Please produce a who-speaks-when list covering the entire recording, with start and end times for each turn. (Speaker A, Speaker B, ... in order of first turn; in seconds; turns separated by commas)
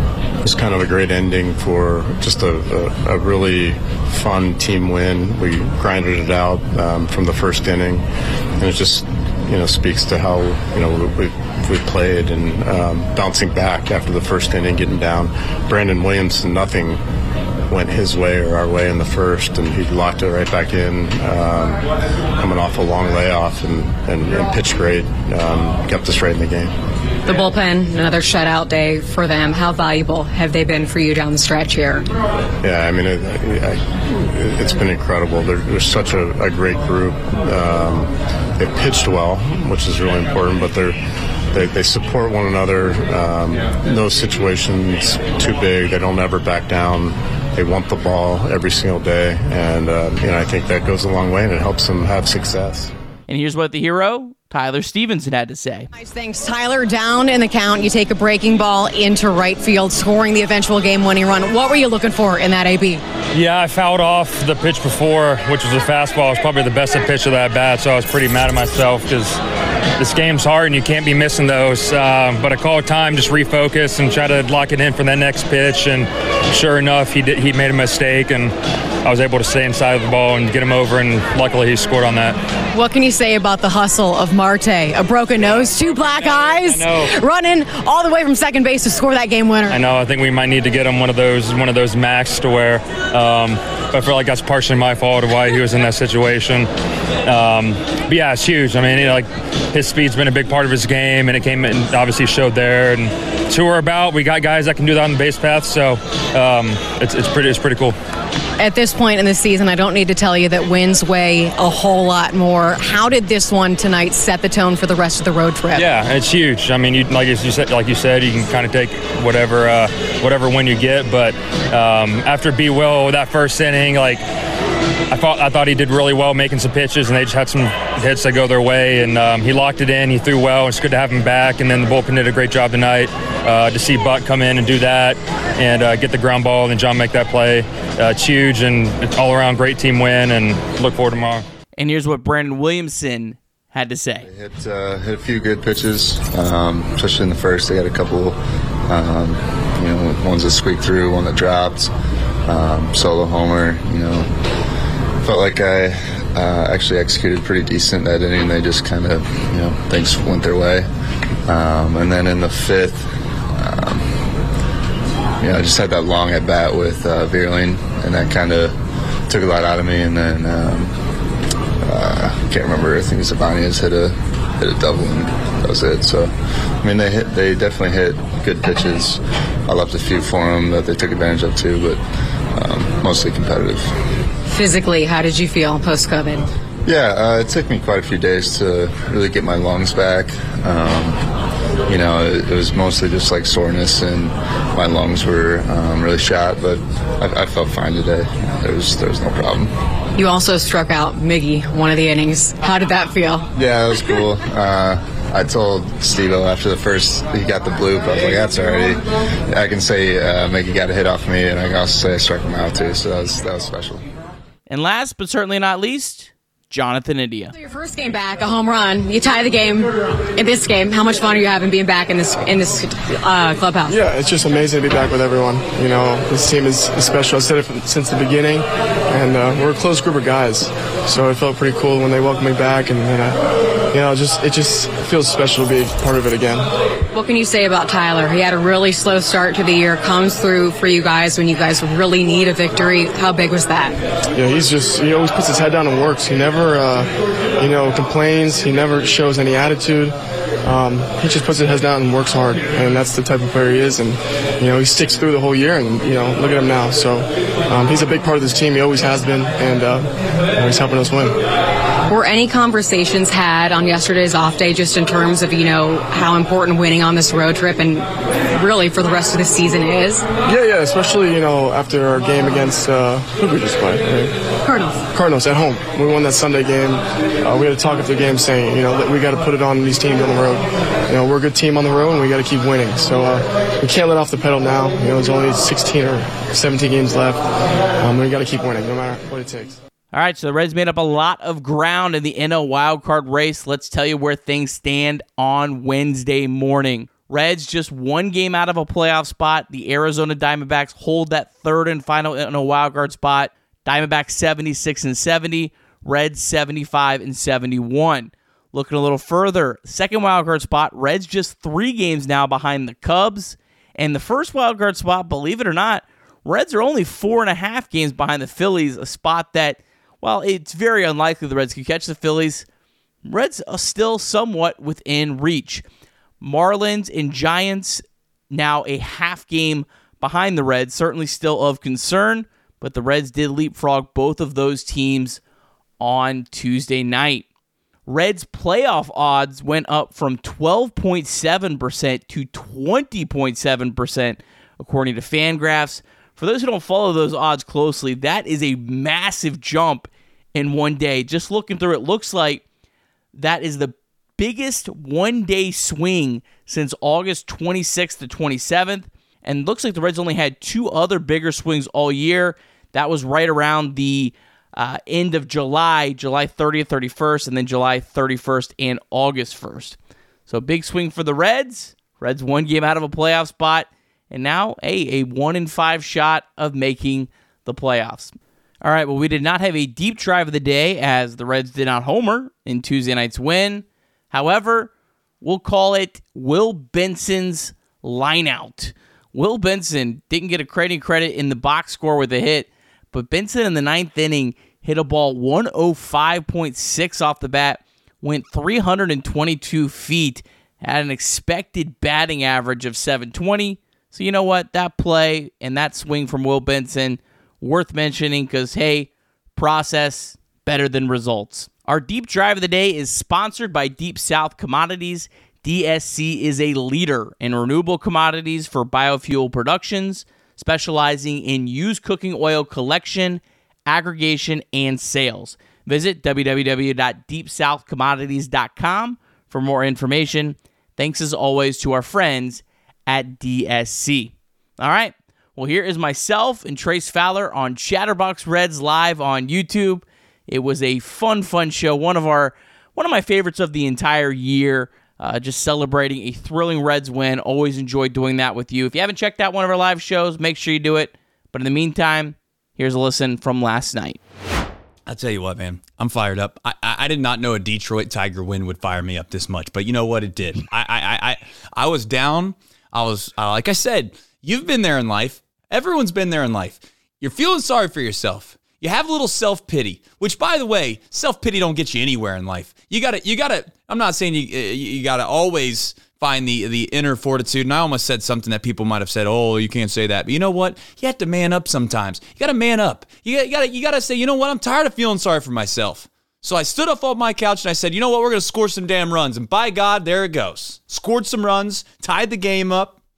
Speaker A: 0.4-8.1, Speaker A: 8.6-17.0, Speaker A: 17.7-21.8, Speaker A: 22.4-26.7, Speaker B: 27.3-32.1, Speaker A: 32.6-41.0, Speaker A: 41.5-52.9, Speaker C: 53.3-55.9, Speaker B: 55.9-63.0, Speaker D: 63.3-69.4, Speaker D: 70.0-78.5, Speaker D: 79.0-82.4, Speaker B: 82.7-89.8, Speaker D: 86.2-87.1, Speaker D: 89.7-96.7, Speaker D: 97.2-108.0, Speaker B: 108.6-115.9, Speaker D: 115.8-124.2, Speaker D: 125.1-141.4, Speaker C: 141.8-144.3, Speaker E: 144.2-151.9, Speaker E: 152.5-154.3, Speaker E: 155.2-160.9, Speaker E: 161.4-164.3, Speaker E: 165.4-171.0, Speaker E: 171.8-182.0, Speaker E: 182.5-183.9, Speaker B: 184.5-186.5, Speaker E: 186.9-191.3, Speaker E: 191.9-199.7, Speaker B: 200.2-203.5, Speaker E: 203.6-214.1, Speaker C: 214.7-217.5, Speaker B: 217.6-224.0, Speaker F: 223.9-233.4, Speaker F: 233.9-236.7, Speaker B: 237.1-244.0, Speaker F: 244.3-261.4, Speaker B: 262.1-270.3, Speaker F: 270.5-274.4, Speaker B: 274.6-275.0, Speaker F: 275.1-287.4, Speaker F: 288.0-289.8, Speaker C: 290.1-322.6, Speaker C: 323.2-325.8, Speaker C: 326.4-335.4, Speaker C: 336.0-337.4, Speaker C: 338.1-352.6, Speaker C: 353.3-370.0, Speaker C: 370.5-384.9, Speaker C: 385.4-454.2, Speaker G: 455.1-493.0